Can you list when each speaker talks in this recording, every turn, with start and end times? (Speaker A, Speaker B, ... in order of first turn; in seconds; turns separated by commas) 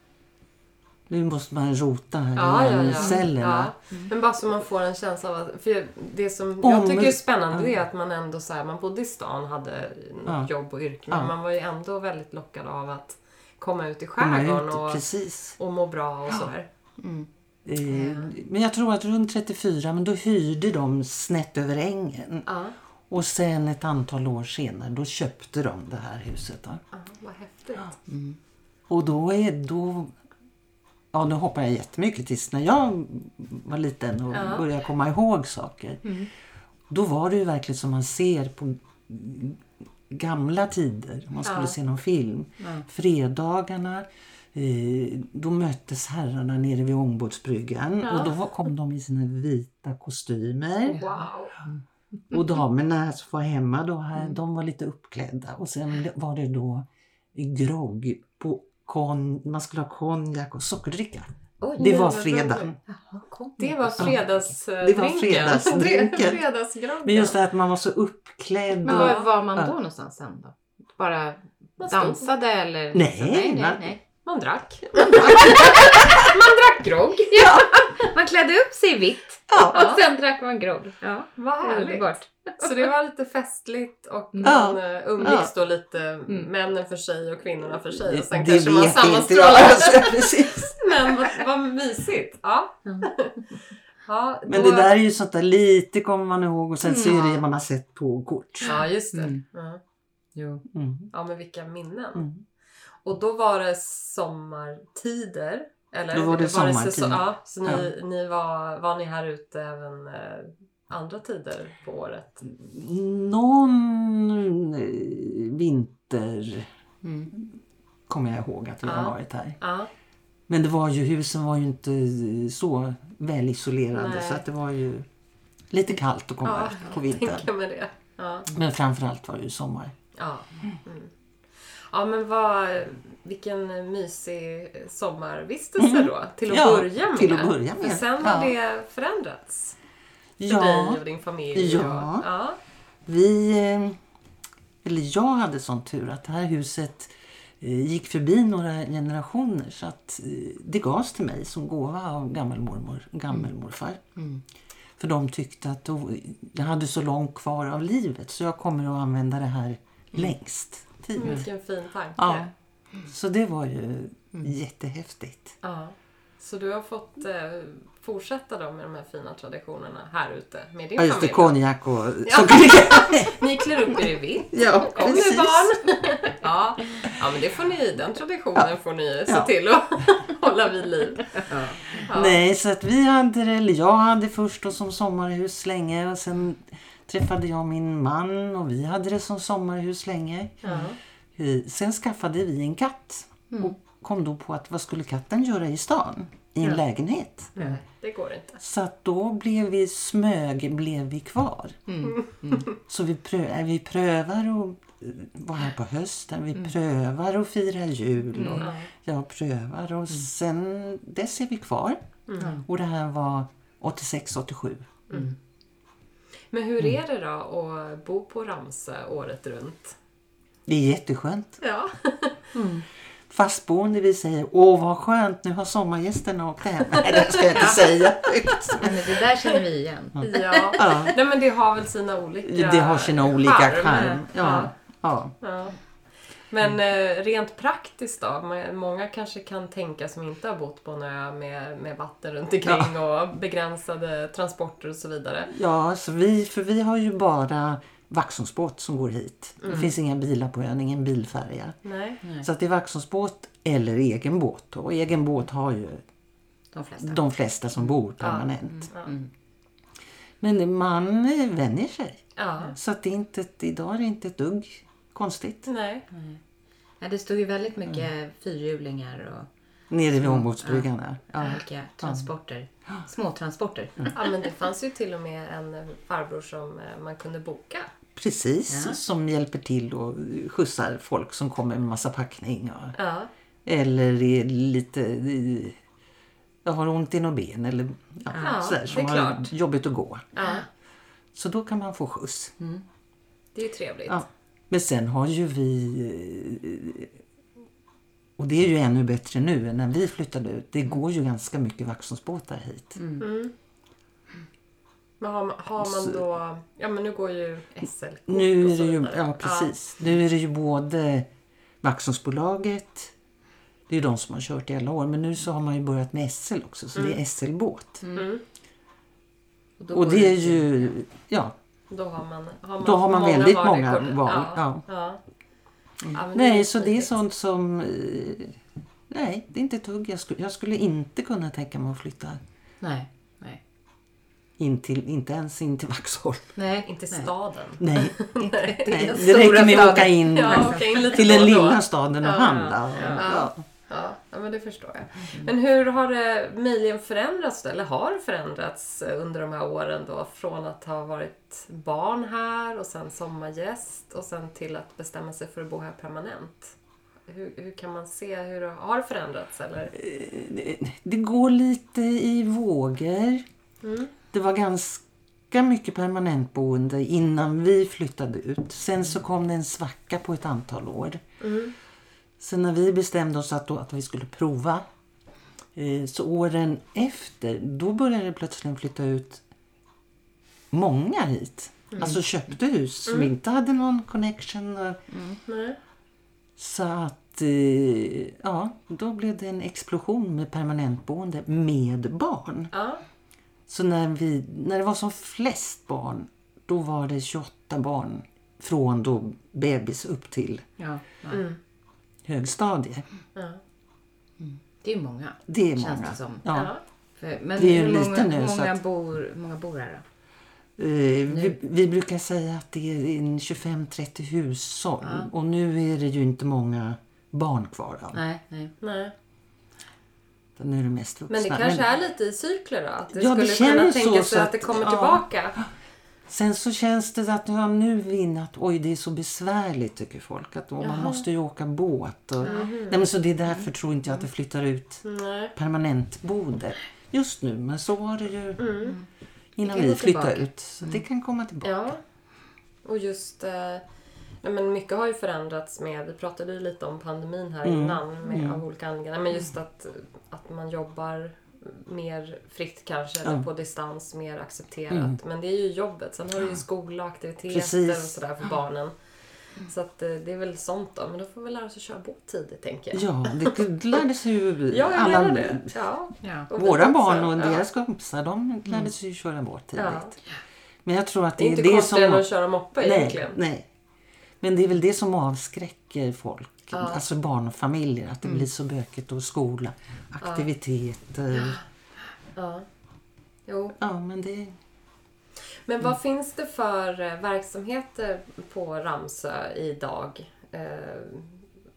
Speaker A: 1.1-3.7, Speaker B: 2.4-15.0, Speaker C: 3.0-3.2, Speaker A: 6.6-7.7, Speaker A: 11.1-11.3, Speaker A: 14.2-15.6, Speaker B: 15.6-16.7, Speaker C: 17.0-17.3, Speaker A: 17.6-22.5, Speaker B: 17.9-18.3, Speaker B: 22.5-22.8, Speaker A: 23.1-26.8, Speaker B: 26.9-28.0, Speaker C: 28.1-28.4, Speaker A: 28.9-30.1, Speaker A: 31.1-36.1, Speaker B: 34.3-34.7, Speaker A: 36.9-51.0, Speaker B: 41.5-41.7, Speaker C: 42.6-42.9, Speaker B: 48.0-48.3, Speaker C: 50.9-51.8, Speaker B: 51.0-51.5, Speaker A: 52.3-62.8, Speaker C: 61.6-62.0, Speaker B: 61.7-62.7, Speaker C: 62.9-64.3, Speaker B: 63.6-67.4, Speaker A: 63.9-66.4, Speaker A: 67.0-69.7, Speaker B: 68.8-69.3, Speaker C: 68.8-74.0, Speaker B: 71.8-72.3, Speaker A: 72.9-73.8, Speaker B: 74.2-77.3, Speaker C: 75.0-76.2, Speaker A: 75.8-76.2, Speaker C: 77.2-82.8, Speaker A: 77.4-77.7, Speaker A: 79.5-79.8, Speaker B: 79.7-80.0, Speaker B: 81.4-93.4, Speaker A: 84.4-85.5, Speaker A: 88.0-90.8, Speaker C: 92.9-93.1, Speaker B: 94.1-94.9, Speaker A: 94.5-98.7, Speaker C: 96.8-97.4, Speaker B: 98.6-99.8, Speaker C: 98.6-99.4, Speaker C: 100.4-100.6, Speaker A: 100.7-101.1, Speaker B: 101.1-102.3, Speaker A: 102.2-102.4, Speaker B: 103.0-112.4, Speaker A: 106.1-107.9, Speaker A: 112.5-116.7, Speaker C: 117.0-117.3, Speaker A: 118.1-119.6, Speaker B: 118.8-119.9, Speaker A: 120.5-125.1, Speaker B: 123.9-124.4, Speaker A: 125.7-127.5, Speaker B: 126.4-128.5, Speaker A: 128.5-129.9, Speaker B: 130.2-131.1, Speaker B: 131.9-139.8, Speaker A: 135.8-138.5, Speaker A: 140.4-141.0, Speaker B: 140.5-142.6, Speaker A: 141.5-142.3, Speaker A: 143.1-144.0, Speaker A: 144.8-154.0, Speaker C: 154.2-154.4, Speaker A: 155.0-161.5, Speaker B: 161.2-162.5, Speaker A: 162.2-162.5, Speaker A: 163.1-165.6, Speaker B: 165.6-171.6, Speaker A: 171.0-175.8, Speaker B: 172.2-182.4, Speaker C: 181.5-182.1, Speaker A: 182.1-190.6, Speaker B: 190.6-191.0, Speaker A: 191.4-197.5, Speaker B: 197.6-198.6, Speaker A: 198.6-201.8, Speaker C: 201.9-202.7, Speaker A: 202.8-212.0, Speaker C: 208.3-208.7, Speaker B: 208.5-208.9, Speaker B: 212.3-212.6, Speaker C: 212.4-212.7, Speaker A: 212.6-214.9, Speaker B: 216.5-220.0, Speaker A: 220.7-221.6, Speaker B: 221.6-222.5, Speaker C: 222.5-222.8, Speaker A: 223.3-229.1, Speaker B: 226.9-227.8, Speaker C: 227.5-227.8, Speaker C: 228.8-231.1, Speaker A: 230.2-231.2, Speaker B: 230.2-234.7, Speaker A: 232.4-235.3, Speaker B: 235.4-235.8, Speaker B: 236.5-245.5, Speaker A: 242.7-242.9, Speaker A: 245.5-251.8, Speaker B: 249.6-249.9, Speaker B: 251.8-252.2, Speaker A: 252.4-256.0, Speaker C: 256.7-257.2, Speaker A: 257.0-258.9, Speaker B: 258.2-259.1, Speaker C: 258.7-259.3, Speaker A: 260.4-265.7, Speaker B: 262.4-262.8, Speaker B: 265.7-266.1, Speaker C: 266.1-266.4, Speaker C: 267.0-269.5, Speaker A: 269.9-272.3, Speaker C: 270.2-270.9, Speaker C: 271.4-274.2, Speaker B: 274.1-277.9, Speaker A: 278.2-283.0, Speaker C: 278.7-279.0, Speaker B: 283.0-283.3, Speaker A: 283.6-285.8, Speaker A: 286.6-290.3, Speaker C: 288.3-288.6, Speaker B: 288.4-289.5, Speaker B: 290.4-290.7, Speaker A: 291.3-292.5, Speaker B: 293.6-294.2, Speaker A: 294.1-297.1, Speaker A: 298.4-303.0, Speaker C: 303.0-303.3, Speaker B: 303.2-303.5, Speaker B: 305.2-309.7, Speaker A: 305.8-306.2, Speaker A: 308.3-311.3, Speaker A: 311.8-313.1, Speaker A: 313.9-318.0, Speaker B: 316.9-317.2, Speaker C: 318.0-318.3, Speaker B: 318.1-318.4, Speaker C: 319.8-320.9, Speaker A: 319.9-321.6, Speaker B: 321.9-325.2, Speaker A: 322.8-324.9, Speaker B: 326.1-327.1, Speaker A: 326.3-328.6, Speaker A: 329.1-332.4, Speaker C: 332.8-333.6, Speaker A: 334.6-336.5, Speaker C: 336.6-337.3, Speaker B: 336.9-356.8, Speaker A: 337.8-343.6, Speaker C: 338.9-341.3, Speaker C: 342.4-343.3, Speaker B: 357.3-359.9, Speaker A: 359.9-363.4, Speaker B: 363.8-364.1, Speaker A: 364.3-371.2, Speaker B: 371.4-371.7, Speaker A: 372.4-374.9, Speaker A: 375.8-379.4, Speaker A: 380.7-385.0, Speaker B: 381.9-382.2, Speaker B: 383.1-383.3, Speaker C: 385.1-385.4, Speaker B: 385.5-385.8, Speaker A: 386.6-392.7, Speaker B: 392.7-393.0, Speaker A: 393.7-400.6, Speaker C: 400.8-401.4, Speaker B: 401.3-401.6, Speaker A: 402.3-403.1, Speaker B: 403.4-403.6, Speaker C: 404.4-406.4, Speaker A: 405.5-406.7, Speaker B: 406.5-406.8, Speaker C: 407.2-410.0, Speaker A: 407.6-408.8, Speaker A: 410.8-418.2, Speaker C: 411.3-411.6, Speaker C: 415.0-415.3, Speaker C: 418.1-418.7, Speaker B: 418.8-419.1, Speaker A: 420.6-421.9, Speaker B: 421.3-425.6, Speaker A: 423.1-425.6, Speaker A: 426.3-435.0, Speaker B: 430.8-431.2, Speaker B: 432.4-433.0, Speaker B: 435.0-435.6, Speaker A: 435.6-438.7, Speaker B: 438.6-439.0, Speaker A: 439.6-441.9, Speaker C: 439.6-441.0, Speaker B: 441.6-442.0, Speaker B: 442.9-443.8, Speaker B: 444.4-458.9, Speaker A: 447.6-448.6, Speaker A: 454.9-455.2, Speaker A: 457.5-458.1, Speaker B: 459.7-464.0, Speaker A: 462.9-465.7, Speaker B: 464.7-467.6, Speaker C: 466.2-466.5, Speaker A: 466.5-470.1, Speaker B: 469.8-470.1, Speaker A: 470.9-473.7, Speaker B: 471.4-473.4, Speaker A: 474.4-481.6, Speaker B: 476.7-477.0, Speaker B: 480.2-480.5, Speaker B: 481.3-481.6, Speaker B: 482.4-482.6, Speaker B: 483.5-483.8, Speaker A: 483.8-484.6, Speaker B: 485.7-491.4